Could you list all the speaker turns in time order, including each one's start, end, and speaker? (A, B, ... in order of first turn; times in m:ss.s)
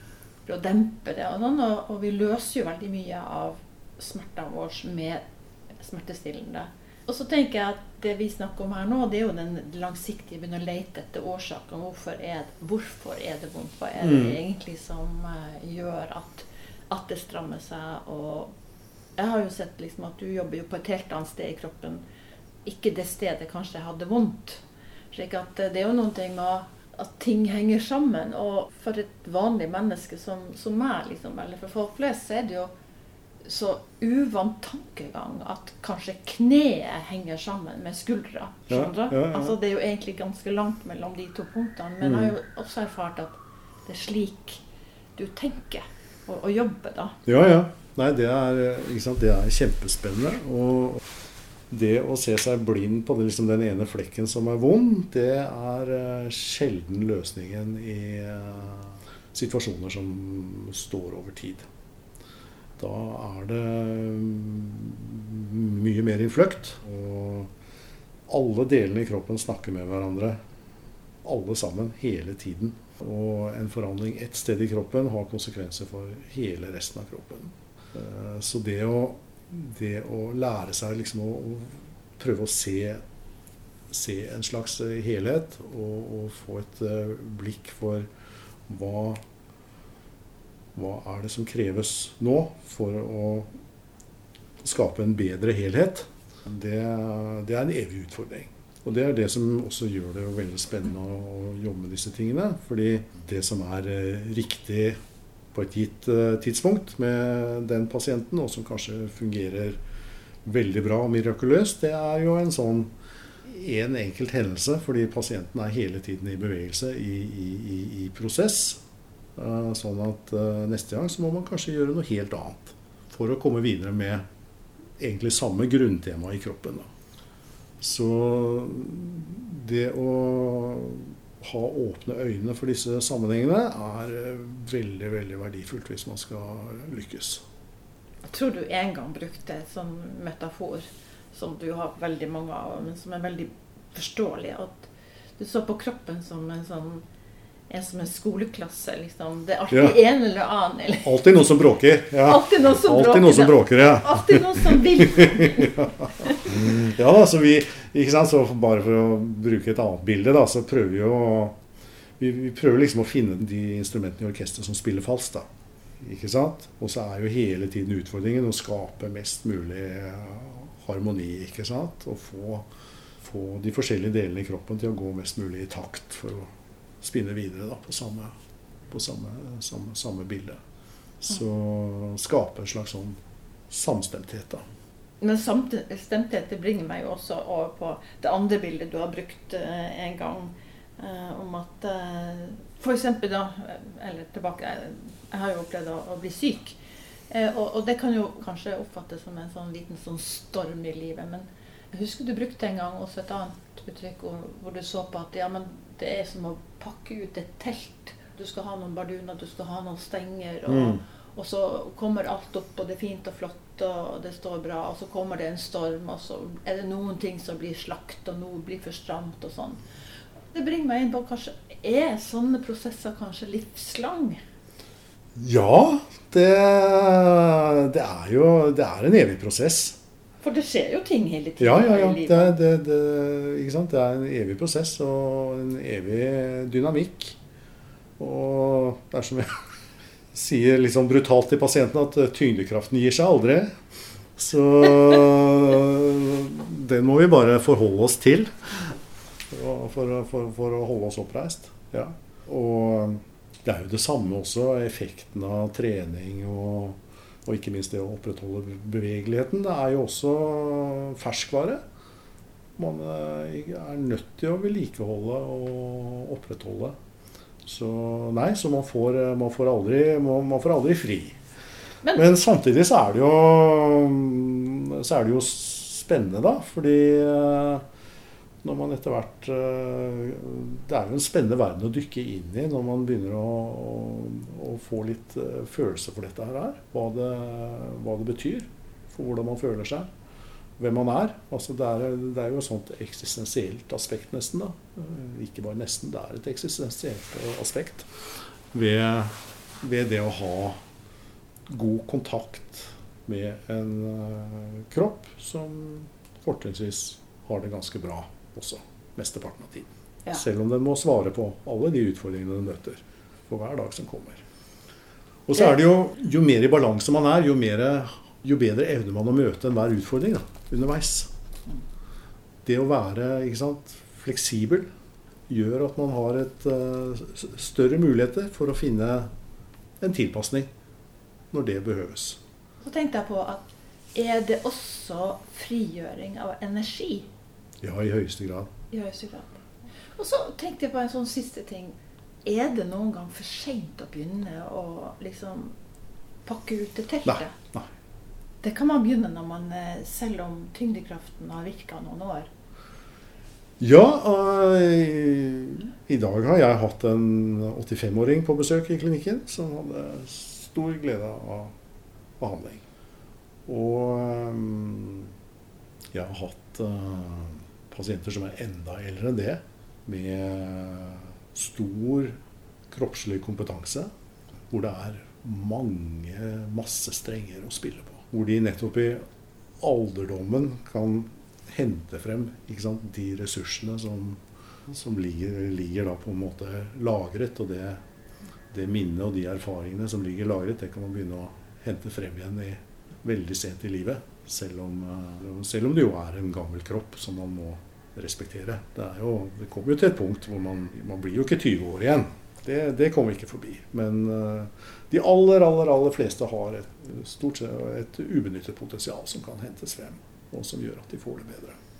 0:00.4-0:05.2 A
0:05.8-0:18.5 A
0:14.0-0:14.4 B
0:19.2-0:22.0 A
0:22.6-0:32.7 A
0:33.4-0:44.6 A
0:38.7-0:39.6 B
0:42.0-0:42.3 B
0:45.2-0:47.2 A
0:47.2-0:51.0 B
0:51.7-1:01.7 B
1:02.8-1:07.5 B
1:08.3-1:10.4 B
1:11.2-1:23.0 B
1:23.9-1:28.1 B
1:28.7-1:29.2 B
1:30.7-1:33.5 B
1:34.6-1:45.0 B
1:45.5-1:49.8 B
1:50.4-1:52.9 B
1:53.4-1:58.8 B
1:59.4-2:04.2 B
2:05.0-2:06.9 B
2:07.8-2:17.4 B
2:18.2-2:27.0 A
2:27.7-2:31.2 A
2:29.7-2:30.0 B
2:31.0-2:41.6 B
2:32.2-2:36.6 A
2:42.2-2:45.5 B
2:46.0-2:52.7 B
2:53.2-2:56.5 B
2:57.0-2:58.3 B
2:58.9-3:00.6 B
3:01.2-3:03.2 B
3:03.7-3:04.6 B
3:05.2-3:16.8 A
3:17.3-3:39.8 A
3:30.7-3:31.0 B
3:40.5-3:44.4 A
3:45.3-3:50.0 B
3:50.4-3:52.6 A
3:51.6-3:57.4 B
3:58.2-3:59.6 B
4:00.3-4:03.7 B
4:04.4-4:09.0 B
4:09.5-4:21.8 B
4:22.8-4:26.9 B
4:27.6-4:31.4 B
4:32.1-4:37.8 B
4:38.6-4:50.1 B
4:50.8-5:00.8 B
5:01.7-5:14.4 B
5:15.5-5:21.3 B
5:22.6-5:24.9 B
5:25.5-5:29.3 B
5:30.0-5:30.7 B
5:31.5-5:32.4 B
5:32.8-5:37.3 A
5:37.8-5:38.7 B
5:38.9-5:39.6 A
5:40.1-5:45.7 A
5:46.4-5:47.5 A
5:47.2-5:47.9 B
5:48.6-5:52.5 A
5:53.8-6:01.7 B
6:02.4-6:02.8 B
6:03.6-6:05.3 B
6:06.1-6:12.4 B
6:12.9-6:14.1 B
6:14.7-6:19.2 B
6:19.8-6:28.0 B
6:28.7-6:51.8 B